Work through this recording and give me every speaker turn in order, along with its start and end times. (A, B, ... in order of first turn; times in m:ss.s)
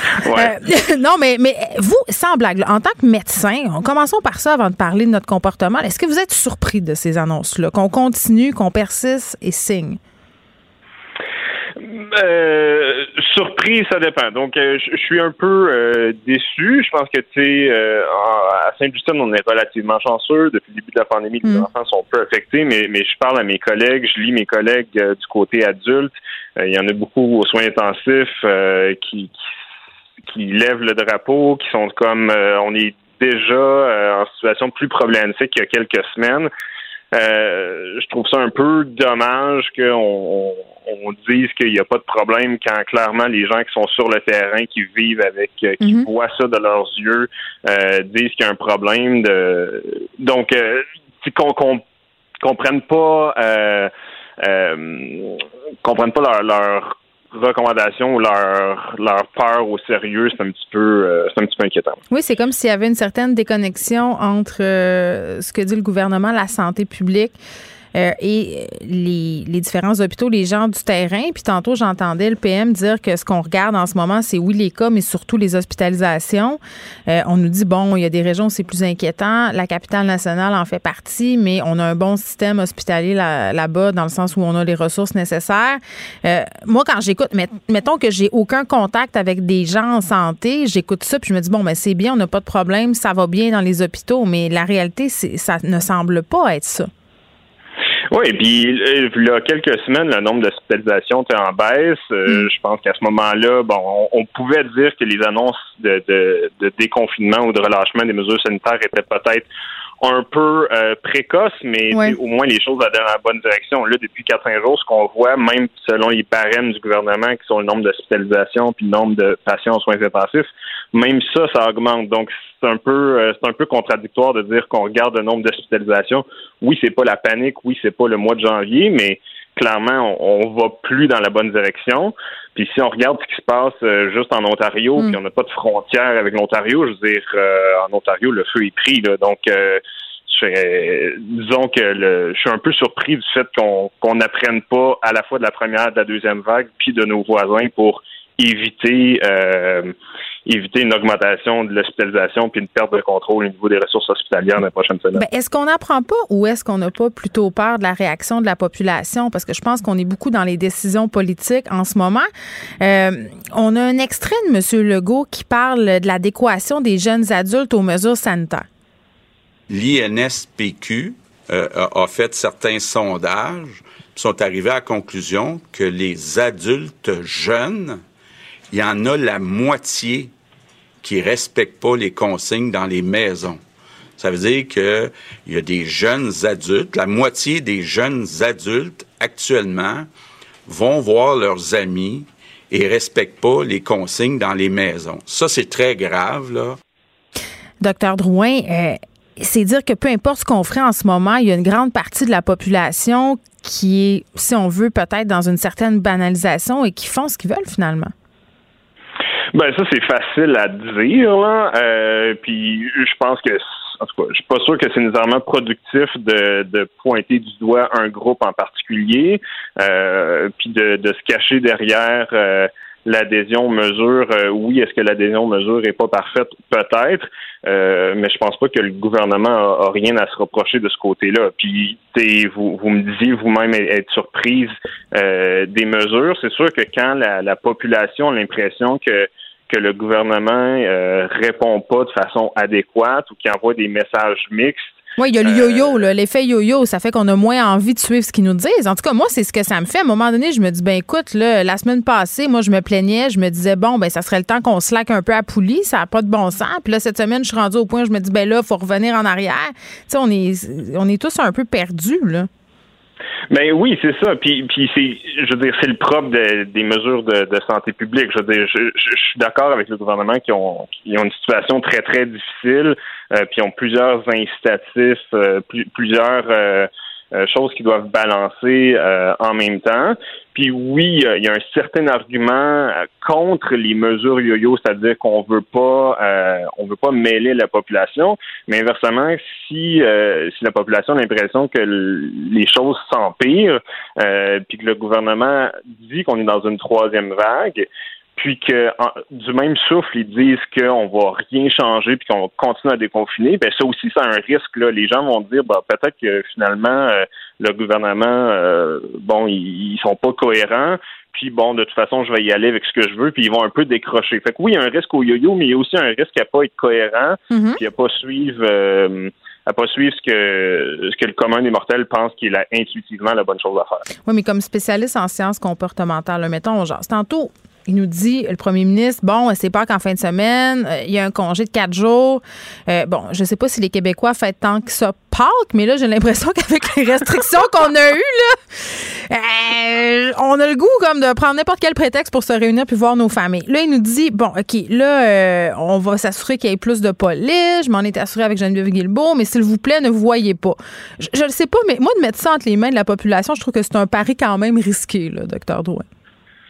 0:00.2-0:00.5 A
0:00.2-0:10.0 B
0:11.8-0:29.4 A
0:30.2-0:36.5 A
0:37.1-0:51.8 A
0:45.8-0:46.1 B
0:52.4-1:02.0 A
1:02.1-1:07.3 B
1:07.9-1:36.9 B
1:38.1-1:49.4 A
1:50.0-2:29.9 A
2:30.4-2:35.2 A
2:35.1-2:42.3 B
2:42.8-2:48.7 B
2:49.7-2:58.0 C
2:58.7-3:00.3 C
3:01.0-3:03.6 C
3:04.2-3:10.1 C
3:10.6-3:16.8 C
3:17.8-3:28.1 B
3:29.5-4:06.0 A
4:05.2-4:22.5 B
4:23.5-5:24.0 A
5:17.5-5:17.8 B
5:24.2-5:56.0 B